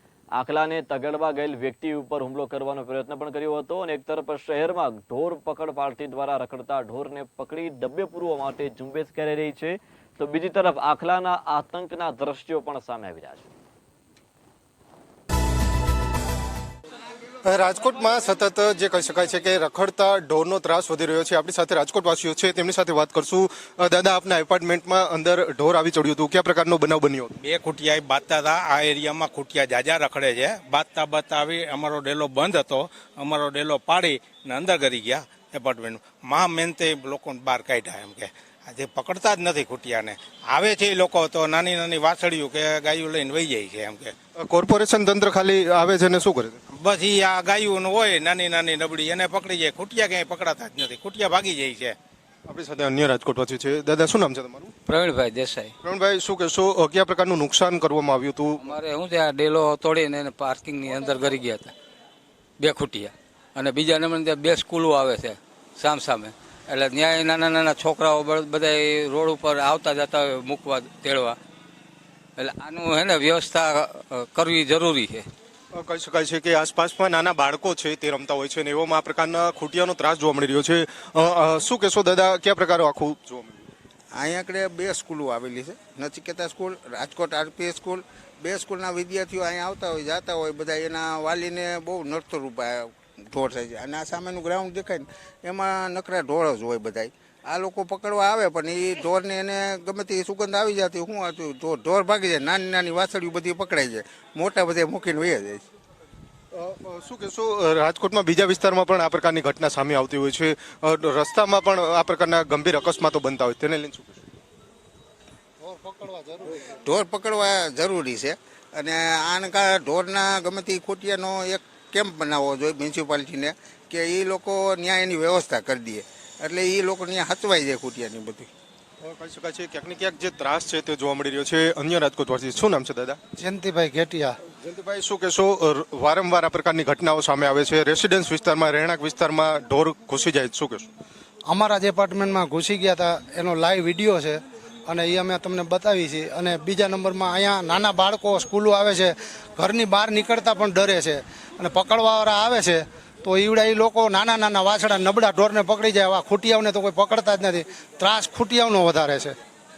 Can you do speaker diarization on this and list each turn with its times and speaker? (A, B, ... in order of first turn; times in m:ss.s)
0:00.4-0:13.5 A
0:17.4-0:27.3 B
0:27.4-0:44.2 C
0:44.4-0:46.6 B
0:46.7-0:52.0 C
0:52.5-0:54.7 B
0:54.9-0:55.7 D
0:55.8-0:58.6 B
0:58.6-1:01.7 D
1:02.6-1:11.4 D
1:12.4-1:15.3 D
1:15.7-1:23.7 B
1:24.1-1:45.6 E
1:46.5-1:54.2 B
1:55.6-1:56.5 F
1:56.6-2:08.5 E
2:09.0-2:13.2 B
2:13.4-2:14.4 F
2:14.5-2:20.9 B
2:21.5-2:39.4 F